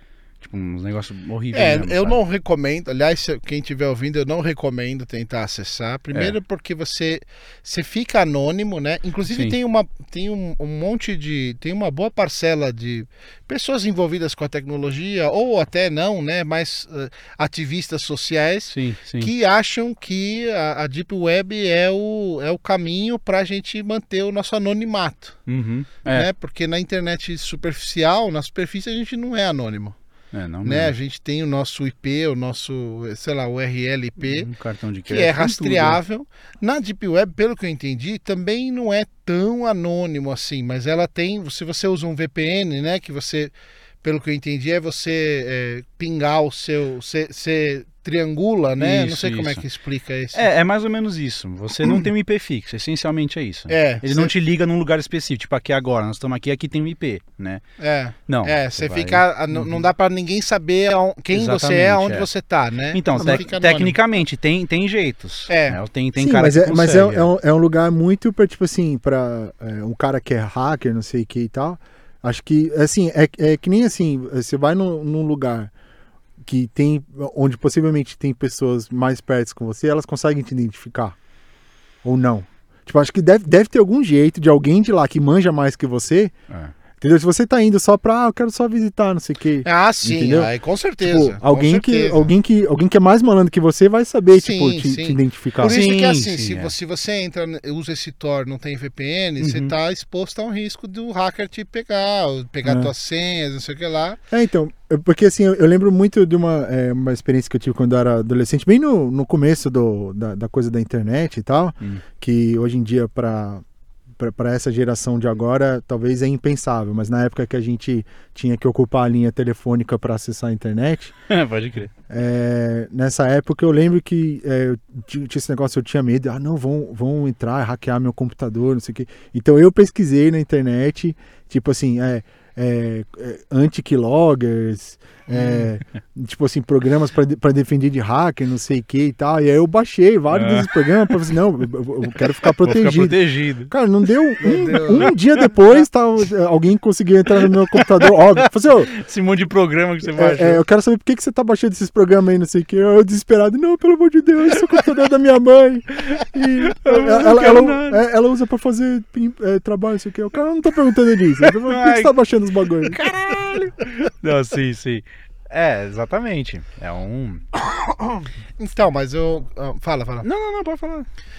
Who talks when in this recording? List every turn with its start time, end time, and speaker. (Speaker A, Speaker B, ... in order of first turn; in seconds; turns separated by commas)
Speaker A: 0.4-2.2, Speaker B: 1.5-25.4, Speaker A: 18.7-19.3, Speaker A: 25.5-26.3, Speaker B: 26.1-30.0, Speaker A: 30.3-30.9, Speaker B: 30.6-34.5, Speaker A: 34.2-36.0, Speaker B: 35.1-43.5, Speaker B: 44.0-50.4, Speaker A: 48.8-49.6, Speaker A: 50.3-57.6, Speaker B: 53.7-54.3, Speaker B: 57.8-64.0, Speaker A: 58.3-59.8, Speaker A: 61.3-62.3, Speaker A: 62.9-67.3, Speaker B: 65.5-65.8, Speaker C: 66.2-75.7, Speaker C: 76.4-81.2, Speaker C: 82.0-86.3, Speaker C: 87.0-95.8, Speaker B: 89.6-92.3, Speaker B: 94.3-104.2, Speaker A: 95.6-96.7, Speaker A: 99.4-99.7, Speaker C: 102.6-102.9, Speaker C: 104.3-113.6, Speaker C: 114.2-121.2, Speaker A: 121.3-121.9, Speaker C: 122.1-148.9, Speaker A: 135.3-135.7, Speaker A: 140.3-141.2, Speaker A: 142.6-143.7, Speaker B: 144.4-145.1, Speaker A: 145.0-145.5, Speaker A: 147.4-150.6, Speaker C: 150.2-163.7, Speaker A: 156.1-158.0, Speaker A: 161.6-162.2, Speaker A: 162.8-167.4, Speaker B: 167.7-170.3, Speaker A: 170.2-171.1